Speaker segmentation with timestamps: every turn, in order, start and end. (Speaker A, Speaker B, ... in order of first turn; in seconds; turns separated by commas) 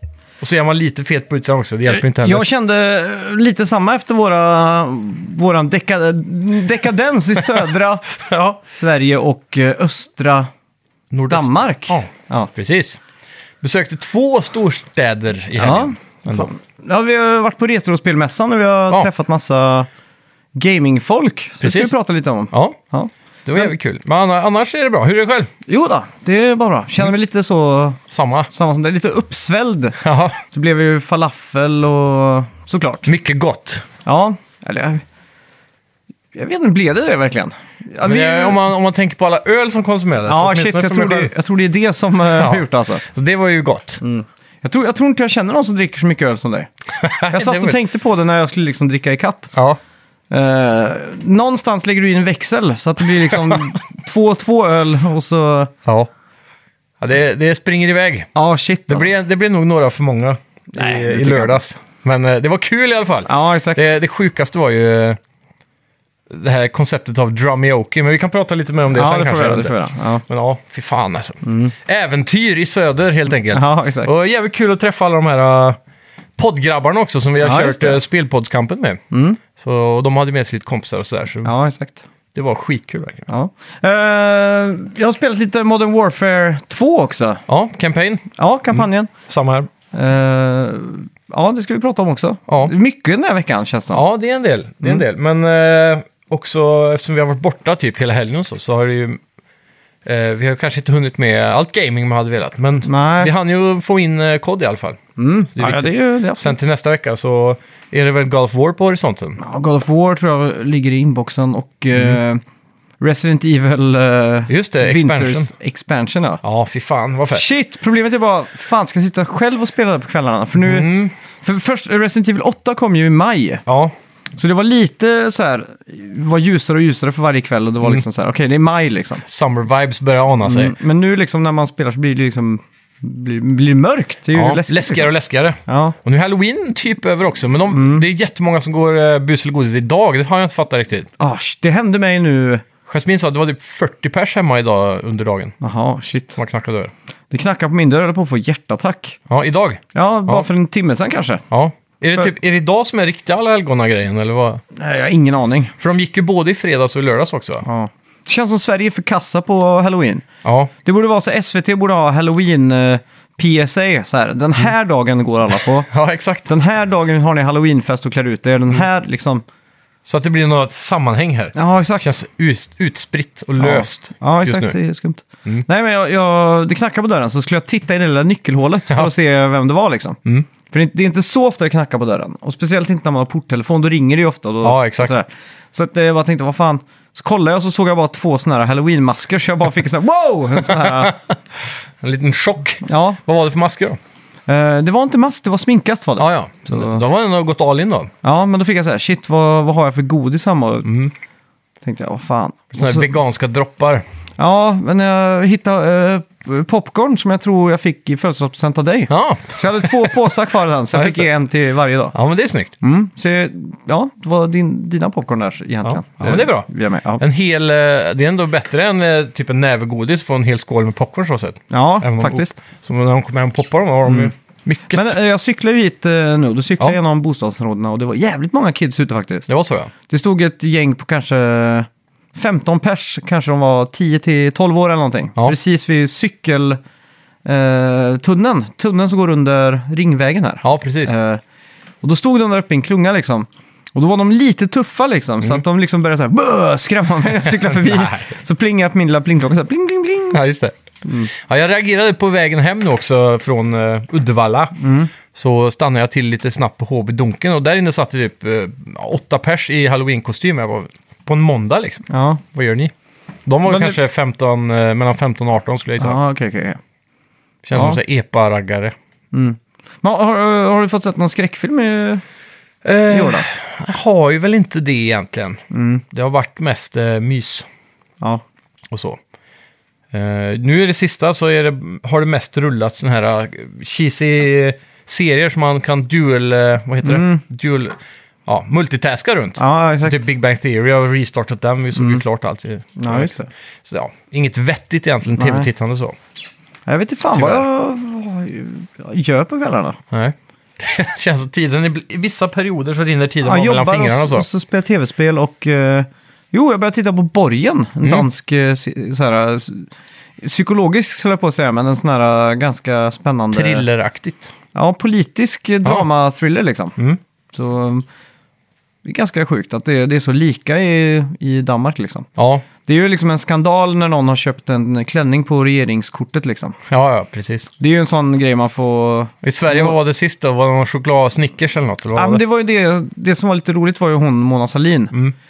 Speaker A: 0.4-2.5, Speaker B: 1.9-8.1, Speaker A: 8.2-8.6, Speaker B: 8.7-10.5, Speaker A: 11.1-13.0, Speaker B: 11.3-12.5, Speaker A: 13.6-16.5, Speaker B: 15.6-19.9, Speaker B: 20.6-23.7, Speaker A: 21.6-21.9, Speaker A: 22.5-22.8, Speaker A: 23.4-25.5, Speaker B: 25.7-28.0, Speaker A: 28.1-28.5, Speaker B: 28.5-33.1, Speaker A: 30.0-30.4, Speaker A: 33.1-33.9, Speaker B: 34.0-35.0, Speaker B: 36.3-38.6, Speaker A: 38.0-41.3, Speaker B: 40.3-43.0, Speaker A: 42.3-44.0, Speaker B: 44.0-46.7, Speaker A: 46.9-47.8, Speaker B: 47.3-49.5, Speaker A: 49.5-49.8, Speaker B: 50.3-55.7, Speaker A: 55.9-56.1, Speaker A: 57.0-58.3, Speaker B: 58.4-59.1, Speaker A: 58.9-65.2, Speaker B: 60.7-61.6, Speaker B: 63.3-63.9, Speaker A: 66.3-75.8, Speaker B: 68.9-70.2, Speaker B: 71.4-71.8, Speaker B: 73.5-74.1, Speaker A: 76.4-79.0, Speaker B: 77.4-78.0, Speaker B: 79.1-79.4, Speaker A: 79.5-81.5, Speaker B: 81.4-82.0, Speaker A: 82.3-83.3, Speaker B: 83.3-87.4, Speaker A: 87.5-89.7, Speaker B: 88.4-89.1, Speaker B: 89.9-94.0, Speaker A: 93.9-99.2, Speaker A: 100.0-105.0, Speaker B: 102.8-103.3, Speaker B: 105.2-106.6, Speaker A: 105.5-109.4, Speaker B: 109.4-112.4, Speaker B: 113.0-116.4, Speaker A: 114.5-115.5, Speaker A: 116.4-117.5, Speaker B: 117.3-123.6, Speaker A: 120.5-121.1, Speaker A: 123.7-123.9, Speaker B: 124.4-129.2, Speaker A: 129.3-130.7, Speaker B: 130.4-135.1, Speaker A: 134.3-141.1, Speaker B: 135.7-136.0, Speaker B: 137.7-138.1, Speaker B: 141.2-142.7, Speaker A: 142.9-145.6, Speaker B: 145.6-146.4, Speaker A: 146.4-146.9, Speaker B: 147.3-149.2, Speaker A: 149.3-150.5, Speaker B: 149.9-151.4, Speaker A: 151.5-154.6, Speaker B: 154.7-155.7, Speaker A: 155.8-157.7, Speaker B: 157.6-160.2, Speaker A: 160.4-160.7, Speaker B: 160.8-165.9, Speaker A: 165.9-166.5, Speaker B: 166.5-169.4, Speaker A: 170.1-174.8, Speaker B: 171.6-172.2, Speaker B: 173.6-191.2, Speaker A: 184.6-185.2, Speaker A: 190.6-194.0, Speaker B: 192.8-193.2, Speaker B: 194.5-197.0, Speaker A: 196.2-198.1, Speaker B: 198.2-200.9, Speaker A: 200.8-201.1, Speaker B: 201.8-203.1, Speaker A: 202.7-204.0, Speaker B: 204.4-212.2, Speaker A: 209.1-210.2, Speaker A: 210.9-211.3, Speaker A: 212.1-212.7, Speaker B: 212.8-217.2, Speaker A: 215.8-225.2, Speaker B: 221.7-222.6, Speaker B: 224.1-224.3, Speaker B: 224.9-229.5, Speaker A: 229.5-229.9, Speaker B: 230.1-236.8, Speaker B: 237.4-241.4, Speaker A: 240.6-241.1, Speaker B: 242.0-250.4, Speaker A: 247.4-248.3, Speaker A: 250.3-250.7, Speaker B: 251.1-251.3, Speaker A: 251.3-262.9, Speaker B: 254.8-255.1, Speaker B: 262.1-262.4, Speaker A: 263.5-266.2, Speaker B: 263.7-264.0, Speaker B: 266.0-266.8, Speaker A: 267.6-268.9, Speaker B: 267.8-268.0, Speaker B: 269.3-272.2, Speaker A: 272.8-277.7, Speaker B: 273.1-273.5, Speaker B: 275.7-276.0, Speaker A: 278.9-279.2, Speaker A: 280.1-296.2, Speaker B: 287.0-287.4, Speaker B: 289.6-290.2, Speaker B: 292.0-292.2, Speaker B: 293.0-293.5, Speaker B: 295.4-295.7, Speaker B: 296.9-300.0, Speaker A: 297.3-297.6, Speaker A: 300.1-304.5, Speaker B: 303.4-309.9, Speaker A: 308.0-308.3, Speaker B: 310.4-313.9, Speaker A: 313.5-314.5, Speaker B: 314.7-317.0, Speaker B: 317.5-318.1, Speaker B: 319.1-322.3, Speaker A: 322.4-322.7, Speaker B: 322.9-326.8, Speaker A: 326.9-327.7, Speaker B: 327.8-330.0, Speaker A: 329.4-332.4, Speaker B: 332.1-335.1